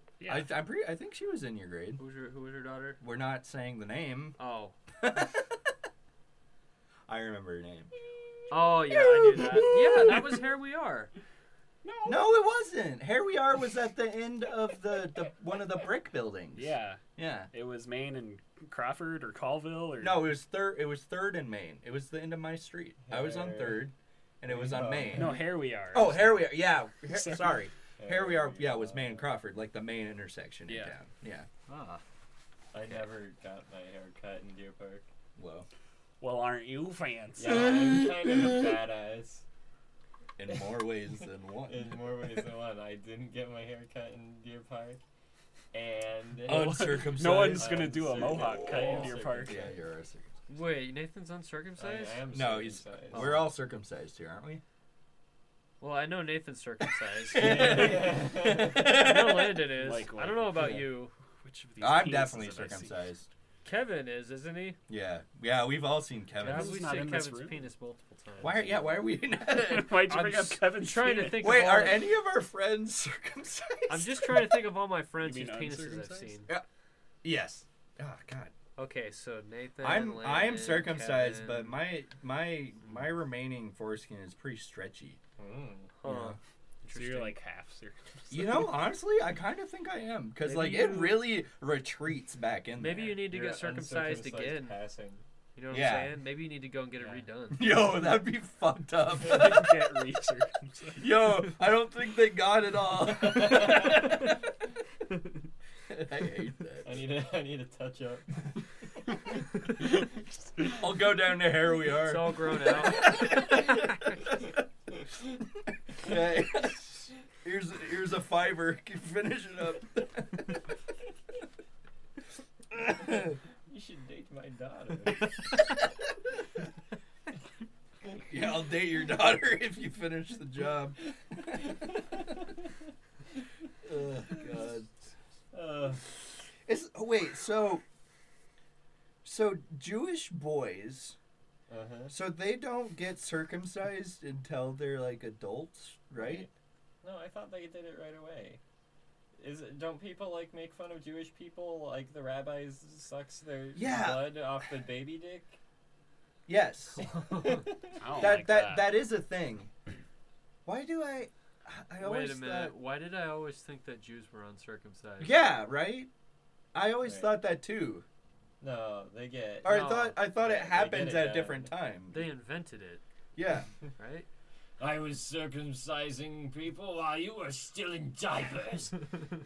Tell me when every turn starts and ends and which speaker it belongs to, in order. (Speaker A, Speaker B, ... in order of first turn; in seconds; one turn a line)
Speaker A: 0.2-0.5
Speaker B: 0.3-2.0
Speaker C: 2.0-3.0
Speaker B: 3.0-4.4
Speaker C: 4.4-4.8
Speaker B: 5.0-5.7
Speaker B: 7.1-7.9
Speaker C: 8.5-11.1
Speaker B: 8.6-10.4
Speaker A: 11.8-12.4
Speaker B: 12.0-17.5
Speaker A: 16.5-17.0
Speaker A: 17.5-20.3
Speaker B: 20.0-31.5
Speaker D: 23.0-23.9
Speaker D: 24.5-25.4
Speaker A: 25.1-27.6
Speaker D: 28.0-29.3
Speaker A: 30.7-30.9
Speaker C: 31.7-32.0
Speaker D: 32.7-35.0
Speaker B: 35.4-35.7
Speaker A: 36.2-38.0
Speaker D: 37.4-39.4
Speaker B: 40.4-41.9
Speaker D: 41.7-45.0
Speaker D: 45.7-49.8
Speaker B: 46.4-50.4
Speaker A: 46.5-49.5
Speaker C: 50.5-52.2
Speaker D: 51.8-53.4
Speaker B: 52.3-54.6
Speaker C: 53.1-53.5
Speaker C: 55.8-61.1
Speaker B: 57.3-59.6
Speaker D: 57.3-58.9
Speaker A: 59.6-60.9
Speaker A: 61.4-62.9
Speaker B: 61.8-63.3
Speaker C: 63.6-64.8
Speaker B: 64.9-67.0
Speaker C: 66.4-69.0
Speaker A: 66.4-67.6
Speaker B: 68.4-70.0
Speaker A: 69.5-71.7
Speaker C: 70.1-72.1
Speaker B: 71.4-74.6
Speaker C: 73.9-76.5
Speaker A: 75.2-76.3
Speaker B: 77.2-78.5
Speaker C: 78.8-81.8
Speaker B: 79.8-85.2
Speaker D: 85.4-85.9
Speaker C: 86.0-87.4
Speaker B: 86.0-86.4
Speaker A: 86.9-88.7
Speaker B: 88.3-93.2
Speaker C: 90.4-91.3
Speaker C: 92.8-94.8
Speaker D: 93.2-95.2
Speaker C: 95.5-97.8
Speaker B: 95.7-96.1
Speaker B: 97.5-99.8
Speaker A: 99.1-101.1
Speaker B: 101.0-104.4
Speaker B: 105.9-107.0
Speaker D: 106.8-108.4
Speaker B: 110.6-114.6
Speaker C: 111.9-114.2
Speaker B: 115.9-120.6
Speaker D: 123.1-125.3
Speaker B: 128.2-132.2
Speaker D: 131.5-132.5
Speaker B: 133.8-134.9
Speaker D: 135.5-136.0
Speaker B: 136.6-137.8
Speaker B: 139.2-141.2
Speaker D: 141.7-142.1
Speaker B: 142.1-146.5
Speaker D: 146.1-146.5
Speaker D: 147.0-148.6
Speaker D: 149.3-155.6
Speaker B: 153.7-154.4
Speaker B: 156.5-157.1
Speaker C: 157.0-157.7
Speaker A: 158.0-158.9
Speaker B: 158.1-159.7
Speaker B: 160.7-162.7
Speaker C: 162.0-165.3
Speaker B: 165.2-166.1
Speaker B: 166.7-168.0
Speaker D: 167.0-167.4
Speaker D: 168.6-171.7
Speaker B: 169.6-172.3
Speaker C: 169.6-170.2
Speaker C: 172.1-173.0
Speaker B: 173.3-173.7
Speaker C: 174.0-174.3
Speaker D: 174.8-178.9